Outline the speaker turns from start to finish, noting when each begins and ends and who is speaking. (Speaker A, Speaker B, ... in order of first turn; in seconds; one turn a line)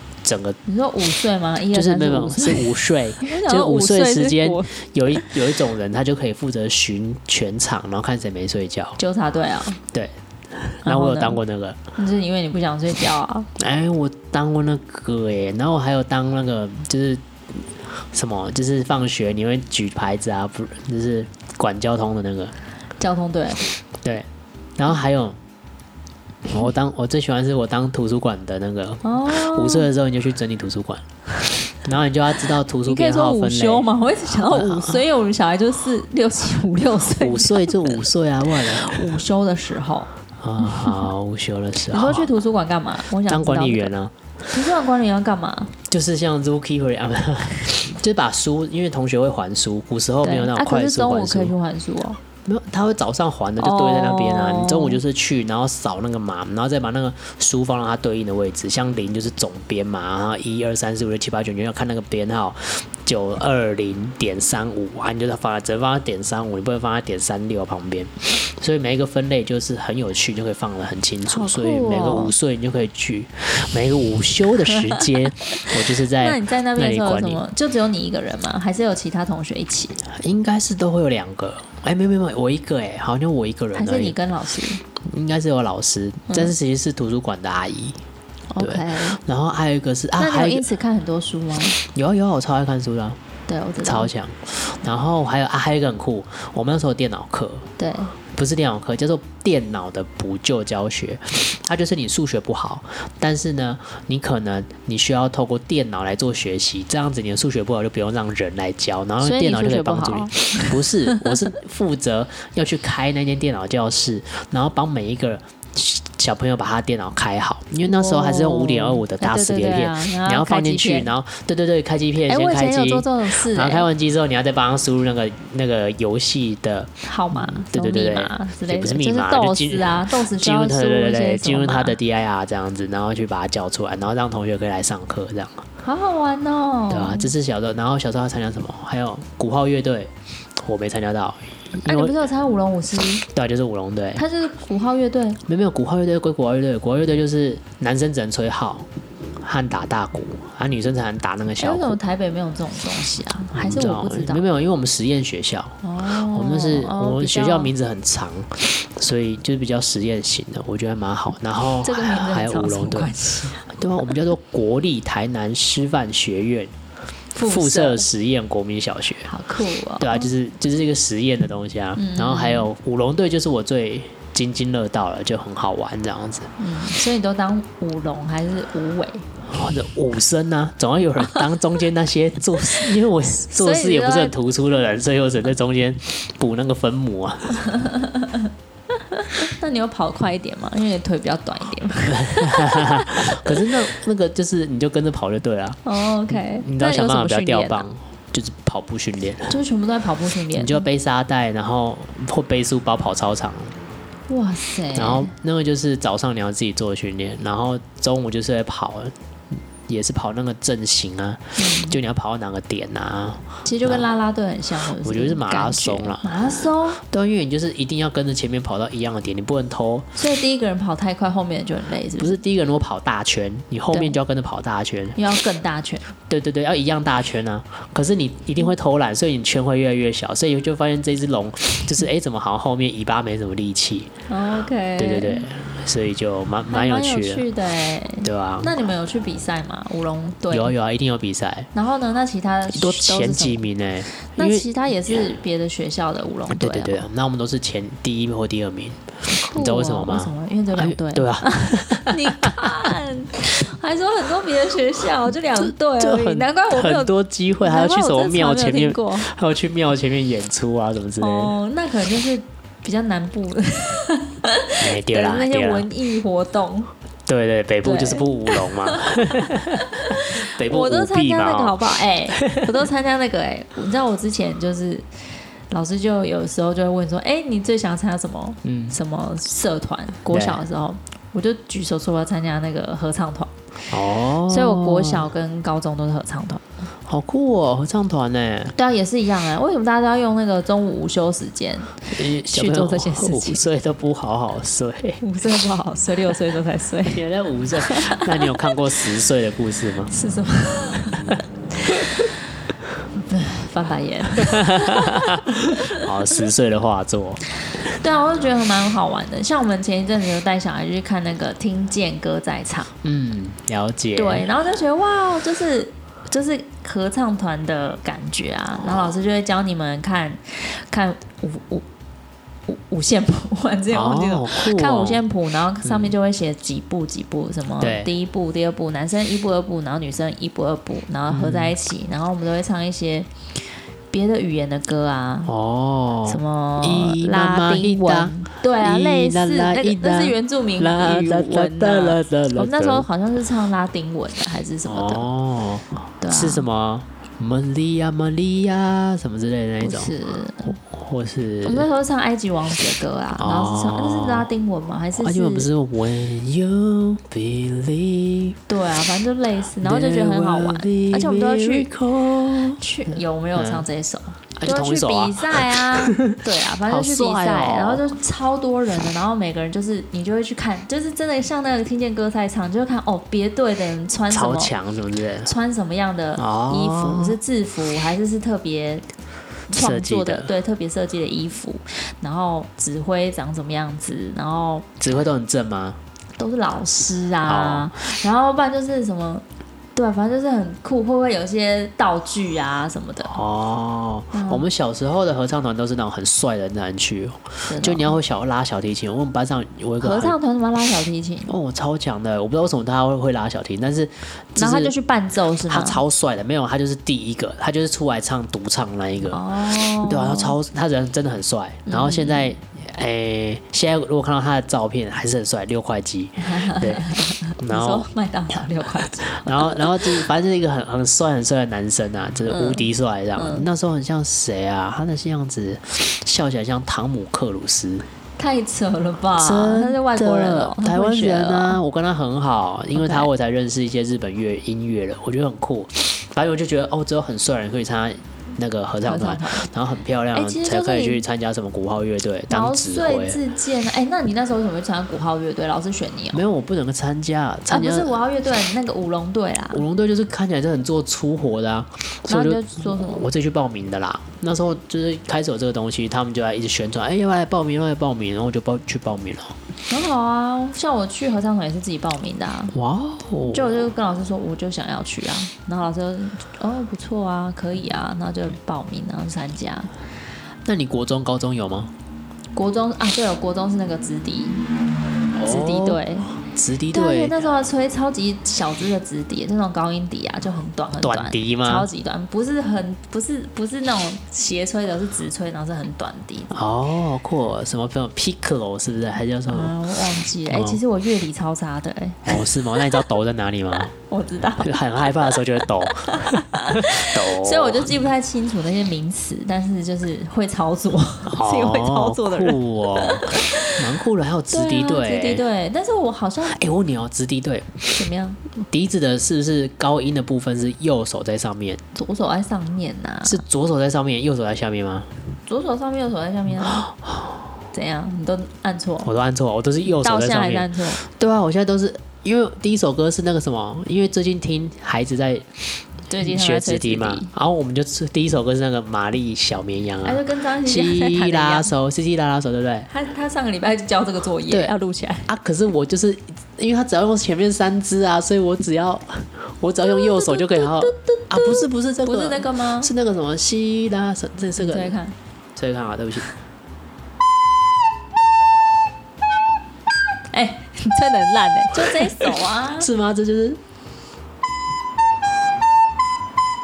Speaker A: 0.2-0.6
Speaker B: 0.7-5.3
Speaker A: 1.7-9.0
Speaker B: 9.0-9.8
Speaker A: 9.9-11.8
Speaker B: 10.8-11.4
Speaker B: 11.9-13.5
Speaker A: 13.6-17.2
Speaker A: 17.9-22.5
Speaker B: 23.0-23.6
Speaker A: 24.0-25.4
Speaker A: 26.5-31.0
Speaker B: 29.0-29.9
Speaker A: 31.7-35.0
Speaker B: 32.9-40.1
Speaker A: 37.1-39.1
Speaker A: 40.4-42.3
Speaker B: 40.6-41.0
Speaker B: 41.9-43.9
Speaker A: 43.3-44.1
Speaker B: 44.5-45.8
Speaker A: 45.9-51.5
Speaker B: 50.2-52.2
Speaker A: 52.4-77.4
Speaker B: 53.6-55.0
Speaker B: 71.3-72.3
Speaker B: 76.2-80.0
Speaker A: 80.0-84.2
Speaker B: 83.8-84.8
Speaker A: 85.0-88.0
Speaker B: 86.3-86.5
Speaker B: 88.5-89.2
Speaker A: 88.6-90.7
Speaker B: 90.2-91.8
Speaker A: 91.8-93.2
Speaker B: 93.5-94.1
Speaker A: 93.8-97.7
Speaker B: 97.8-98.1
Speaker A: 98.3-135.7
Speaker B: 109.2-111.3
Speaker B: 117.8-121.1
Speaker B: 122.3-123.9
Speaker B: 127.1-132.0
Speaker B: 135.8-137.3
Speaker A: 136.9-142.2
Speaker B: 141.8-143.2
Speaker A: 143.2-144.2
Speaker B: 144.2-145.4
Speaker A: 145.4-148.8
Speaker A: 149.4-152.0
Speaker B: 151.6-154.4
Speaker A: 153.5-155.8
Speaker B: 155.8-157.7
Speaker A: 156.3-163.1
Speaker B: 161.8-163.7
Speaker A: 163.7-166.7
Speaker B: 167.3-168.1
Speaker A: 167.4-169.3
Speaker B: 169.2-170.3
Speaker A: 170.0-176.5
Speaker B: 171.9-172.7
Speaker B: 176.6-179.3
Speaker A: 179.4-187.7
Speaker B: 183.4-184.3
Speaker B: 187.7-193.7
Speaker A: 192.1-199.6
Speaker B: 195.8-197.8
Speaker B: 199.5-200.8
Speaker A: 200.6-203.8
Speaker B: 204.3-205.3
Speaker A: 204.9-214.1
Speaker B: 211.6-212.0
Speaker B: 213.7-217.0
Speaker A: 215.0-216.4
Speaker A: 217.0-220.1
Speaker B: 220.2-222.4
Speaker A: 222.2-225.2
Speaker B: 225.2-226.1
Speaker A: 226.3-234.1
Speaker B: 234.3-235.5
Speaker A: 235.0-237.4
Speaker B: 236.7-240.7
Speaker A: 238.2-238.7
Speaker A: 240.5-241.7
Speaker B: 241.7-243.7
Speaker A: 242.7-244.7
Speaker B: 244.3-247.1
Speaker A: 246.5-252.9
Speaker B: 249.2-259.3
Speaker A: 255.5-261.5
Speaker B: 261.2-266.9
Speaker A: 264.8-265.9
Speaker A: 267.3-271.8
Speaker B: 267.8-275.1
Speaker A: 272.4-272.7
Speaker B: 275.7-283.5
Speaker A: 278.6-278.9
Speaker A: 280.3-280.6
Speaker A: 283.9-285.3
Speaker B: 284.5-286.6
Speaker A: 287.1-288.7
Speaker B: 288.7-293.6
Speaker A: 292.1-295.2
Speaker B: 295.2-297.2
Speaker A: 297.1-300.1
Speaker B: 297.8-298.7
Speaker B: 300.1-302.3
Speaker B: 303.2-306.1
Speaker A: 304.4-307.4
Speaker B: 307.8-312.9
Speaker A: 313.0-314.5
Speaker B: 314.2-321.8
Speaker B: 322.7-333.3
Speaker A: 323.9-325.2
Speaker A: 325.8-326.1
Speaker A: 327.8-328.1
Speaker A: 331.3-331.7
Speaker B: 334.1-335.5
Speaker A: 335.4-343.1
Speaker B: 336.2-345.3
Speaker A: 344.9-350.1
Speaker B: 346.2-346.6
Speaker B: 349.8-350.8
Speaker A: 350.7-351.9
Speaker B: 351.6-355.7
Speaker A: 353.4-354.5
Speaker A: 355.2-358.6
Speaker B: 358.7-361.9
Speaker A: 359.8-363.9
Speaker B: 362.8-374.7
Speaker A: 364.6-368.0
Speaker A: 374.3-375.5
Speaker B: 375.4-379.1
Speaker A: 376.4-377.4
Speaker B: 379.7-384.9
Speaker A: 379.7-380.5
Speaker A: 385.0-386.0
Speaker B: 386.4-389.4
Speaker A: 387.4-387.9
Speaker B: 389.9-393.4
Speaker A: 393.3-400.4
Speaker B: 394.3-394.7
Speaker B: 397.7-398.2
Speaker B: 400.0-401.5
Speaker A: 401.5-404.9
Speaker B: 404.6-406.0
Speaker A: 405.7-409.4
Speaker B: 409.3-410.6
Speaker A: 410.0-418.1
Speaker B: 411.9-412.5
Speaker B: 416.4-420.2
Speaker A: 419.2-428.1
Speaker B: 422.5-423.6
Speaker B: 428.4-431.8
Speaker A: 429.4-443.4
Speaker B: 432.9-433.3
Speaker B: 439.1-439.7
Speaker B: 440.3-441.2
Speaker B: 442.5-446.4
Speaker A: 446.3-448.1
Speaker B: 447.7-449.8
Speaker A: 449.7-459.6
Speaker B: 452.3-453.2
Speaker B: 459.9-462.8
Speaker A: 462.7-463.9
Speaker B: 463.5-469.9
Speaker A: 470.6-471.9
Speaker B: 472.6-474.7
Speaker A: 475.3-477.4
Speaker B: 475.4-476.3
Speaker B: 476.9-486.5
Speaker A: 481.0-481.9
Speaker A: 486.5-489.7
Speaker B: 489.5-493.1
Speaker A: 490.5-490.8
Speaker A: 492.2-493.9
Speaker B: 494.1-503.8
Speaker A: 494.6-497.9
Speaker A: 501.3-505.4
Speaker B: 504.5-506.6
Speaker A: 506.5-511.8
Speaker B: 507.9-508.4
Speaker B: 511.9-513.4
Speaker A: 513.2-515.1
Speaker B: 515.5-516.9
Speaker B: 517.7-519.1
Speaker A: 519.0-532.9
Speaker B: 519.9-521.0
Speaker B: 526.1-527.3
Speaker B: 530.0-531.7
Speaker B: 532.9-535.3
Speaker A: 535.2-545.0
Speaker B: 539.8-542.9
Speaker B: 544.6-545.1
Speaker A: 545.6-546.3
Speaker B: 550.3-552.9
Speaker A: 551.8-553.6